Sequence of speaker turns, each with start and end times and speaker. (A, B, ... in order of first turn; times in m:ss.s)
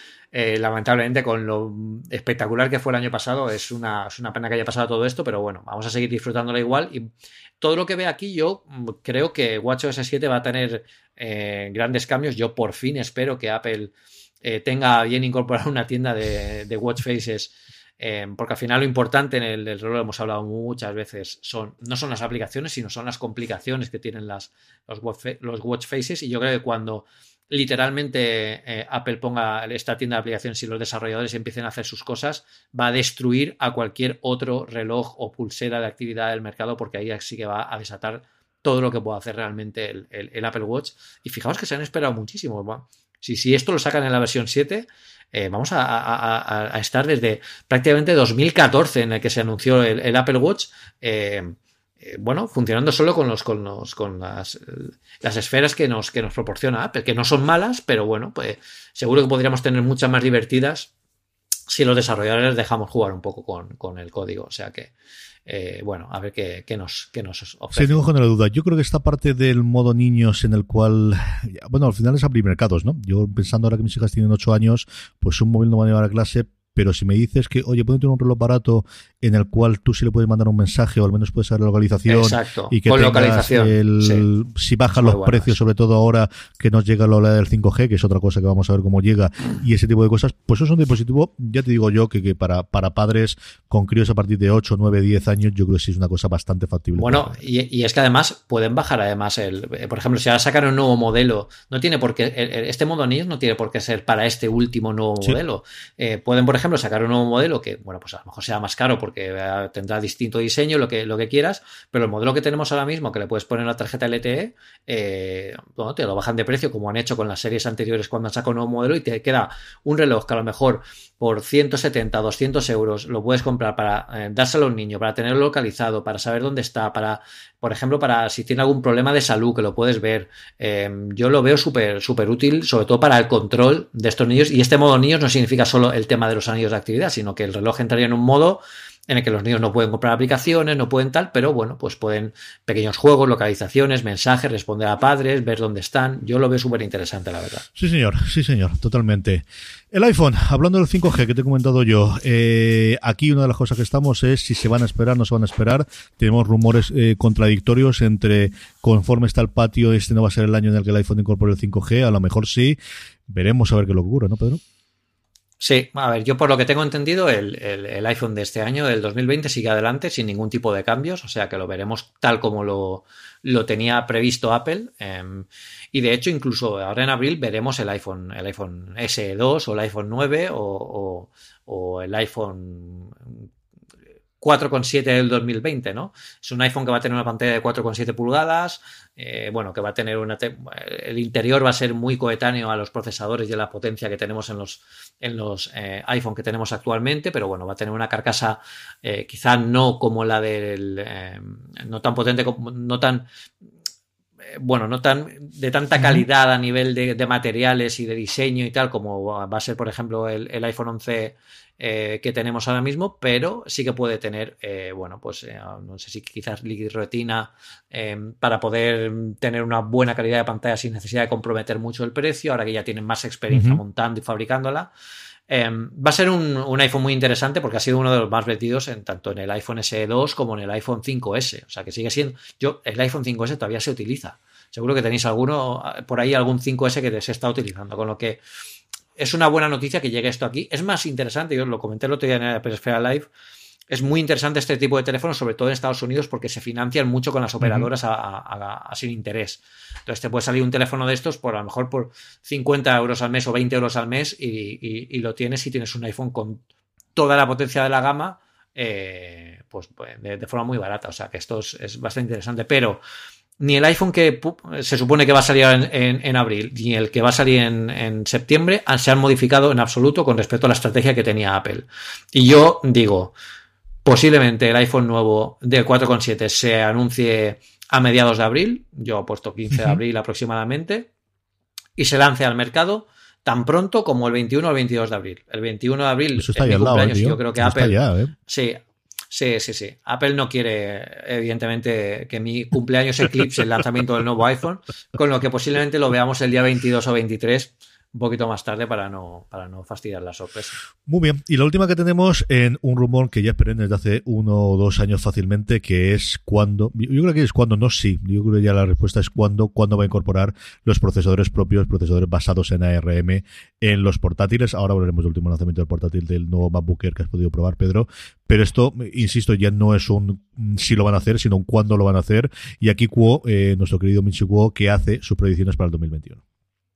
0:00.3-1:00.9 A
1:01.7-1:04.9 A
1:05.5-1:08.0 A
1:07.7-1:37.4 B
1:22.1-1:24.2 A
1:25.0-1:25.6 A
1:36.9-2:27.6 A
2:27.7-2:42.8 B
2:43.3-2:44.6 B
2:45.6-3:03.4 A
3:04.4-3:23.3 A
3:24.5-3:44.9 A
3:43.5-3:43.8 B
3:45.5-3:58.4 A
3:59.2-4:03.3 A
4:03.9-4:16.6 A
4:07.6-4:07.9 B
4:17.1-4:23.0 A
4:23.6-4:33.3 A
4:34.0-4:41.1 A
4:39.7-4:40.0 B
4:42.0-4:48.8 A
4:46.4-4:48.3 B
4:49.3-5:00.8 A
5:01.1-5:26.4 B